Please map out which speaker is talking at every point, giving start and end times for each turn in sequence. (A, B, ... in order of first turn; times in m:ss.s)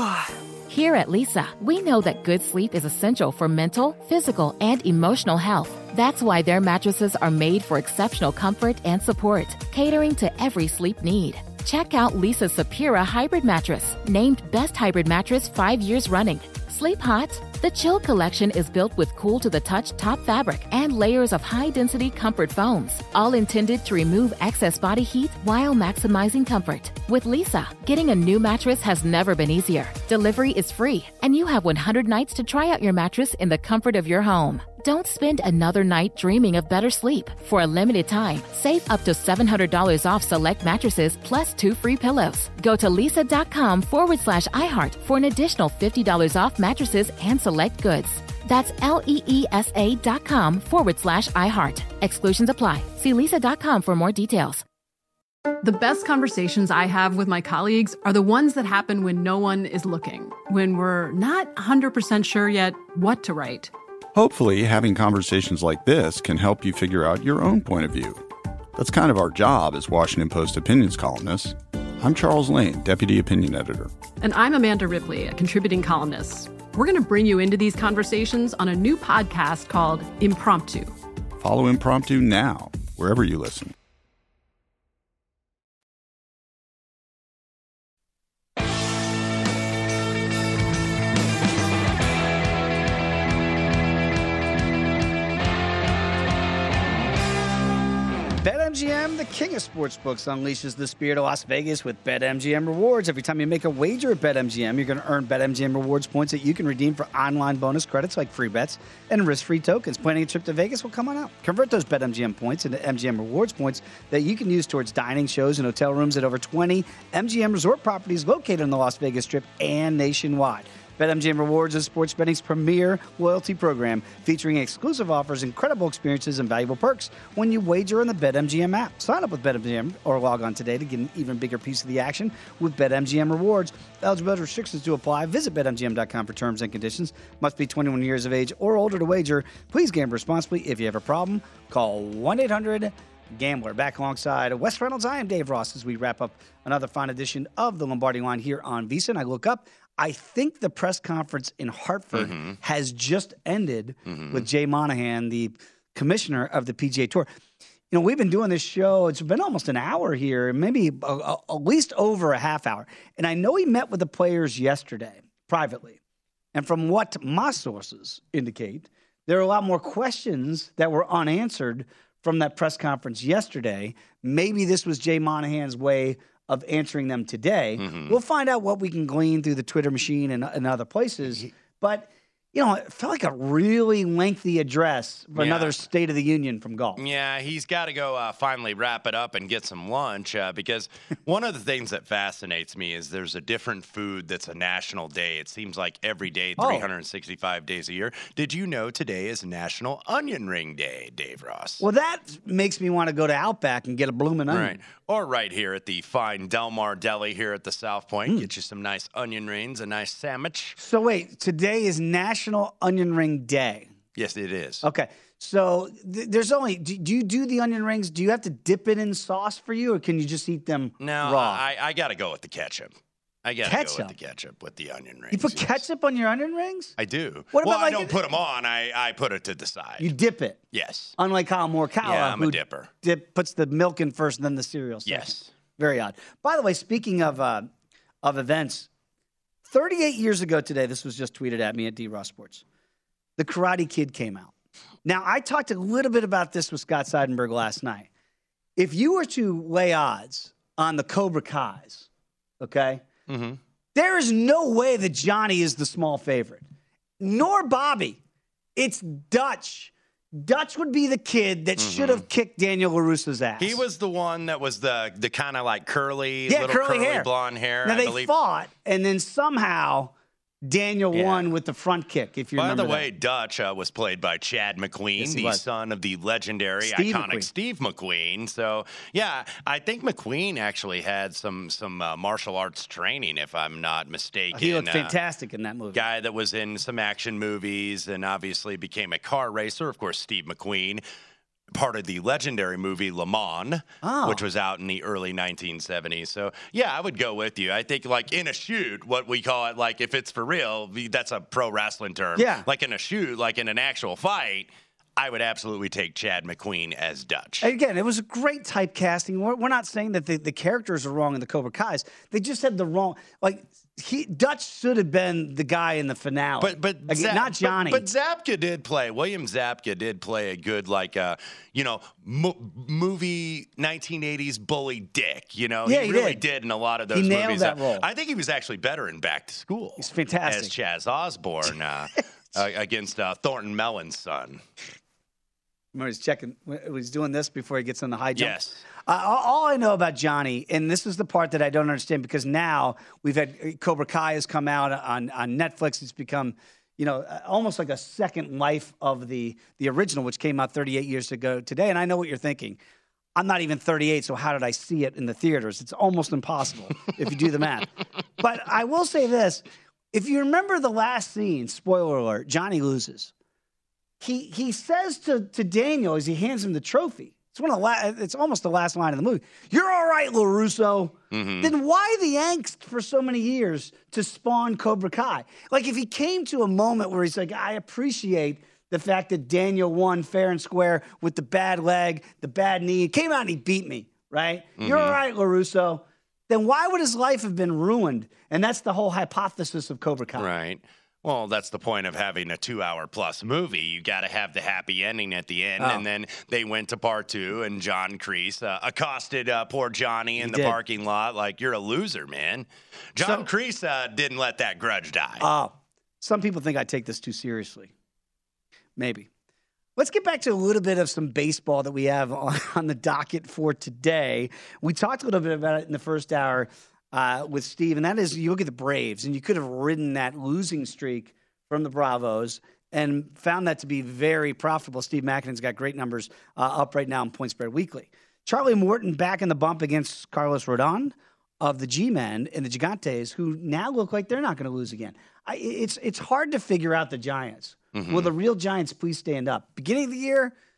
0:00.7-0:54.6 A
0:55.6-1:03.7 B
1:04.2-1:08.2 C
1:08.8-1:13.9 C
1:14.2-1:20.9 B
1:21.4-1:23.7 C
1:38.4-2:37.3 D
2:32.1-2:32.6 E
2:34.1-2:34.5 E
2:37.9-2:46.0 D
2:46.6-3:07.0 D
2:57.8-2:58.2 E
3:05.4-3:05.8 E
3:07.0-3:21.8 E
3:16.6-3:16.9 D
3:21.8-3:24.8 D
3:24.5-3:30.8 E
3:30.8-3:33.9 D
3:34.2-3:34.8 E
3:34.8-3:41.6 D
3:41.0-3:45.8 E
3:43.6-3:44.1 D
3:45.3-3:47.0 D
3:47.0-3:50.1 E
3:47.5-3:48.2 D
3:50.0-3:50.6 D
3:50.7-3:51.2 E
3:51.2-3:57.7 D
3:52.0-3:52.9 E
3:55.1-3:55.5 E
3:58.2-3:58.9 D
3:59.6-4:02.6 D
4:03.4-4:04.5 D
4:05.0-4:08.1 D
4:08.8-4:12.1 D
4:12.6-4:13.0 D
4:13.3-4:13.6 E
4:14.0-4:16.6 D
4:17.2-4:18.2 D
4:18.8-4:23.8 D
4:21.8-4:22.3 E
4:23.6-4:28.3 E
4:26.5-4:27.3 D
4:27.8-4:30.1 D
4:30.7-4:33.1 D
4:31.1-4:31.5 E
4:32.6-4:45.1 E
4:35.2-4:35.6 D
4:36.8-4:37.5 D
4:44.5-4:46.0 D
4:45.9-4:51.0 E
4:51.7-5:07.7 E
4:54.0-4:54.4 D
5:02.4-5:02.7 D
5:07.6-5:18.1 D
5:16.6-5:34.6 E
5:25.9-5:26.4 D
5:27.1-5:28.0 D
5:30.0-5:30.7 D
5:35.9-5:52.8 D
5:38.4-5:38.8 E
5:53.4-6:03.3 D
6:04.2-6:30.5 D
6:11.3-6:11.7 E
6:24.8-6:25.2 E
6:30.4-6:45.5 E
6:35.8-6:36.0 D
6:40.4-6:40.8 D
6:43.2-6:43.5 D
6:45.4-6:47.9 D
6:49.0-6:49.3 D
6:50.0-7:20.5 D
7:17.9-7:18.3 E